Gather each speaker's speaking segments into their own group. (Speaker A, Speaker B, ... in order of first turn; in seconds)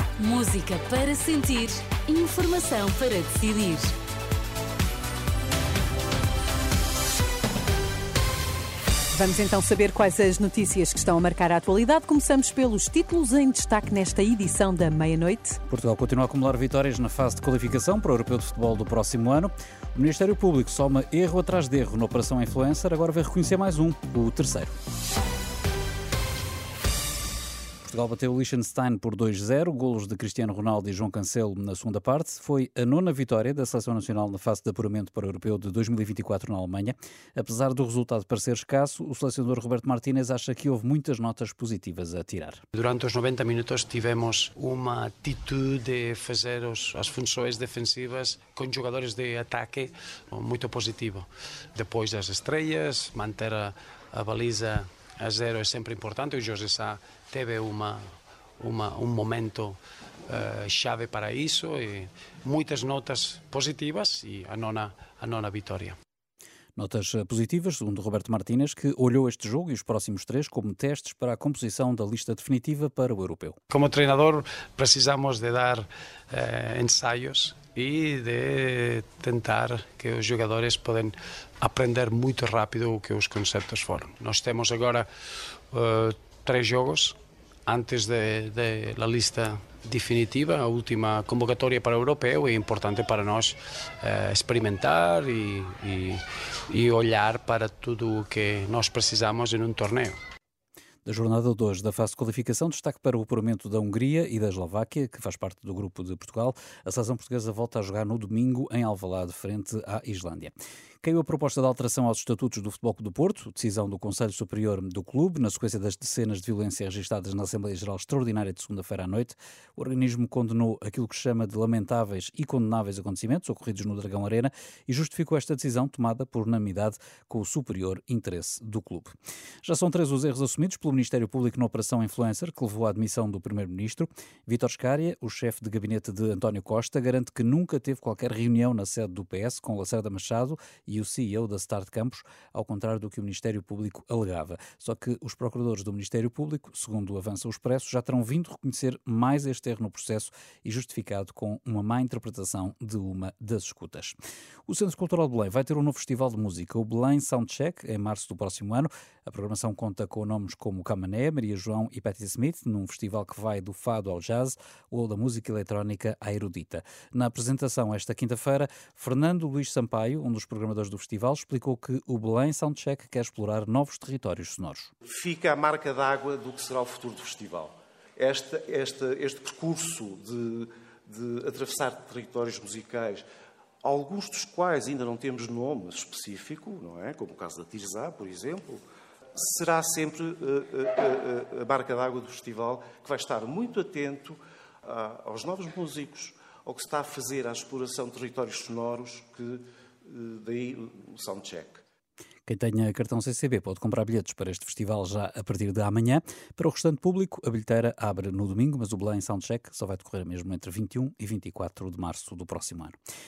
Speaker A: 0.2-3.9
Speaker B: 9.1-15.6
Speaker C: 15.7-24.7, 27.8-42.6, 66.8-73.6, 101.0-129.1, 129.6-154.2, 154.7-174.9, 202.5-212.9
Speaker D: 42.7-58.1, 58.6-66.0, 73.7-85.1, 85.7-100.2
Speaker E: 175.1-183.2, 183.8-188.8, 189.3-201.8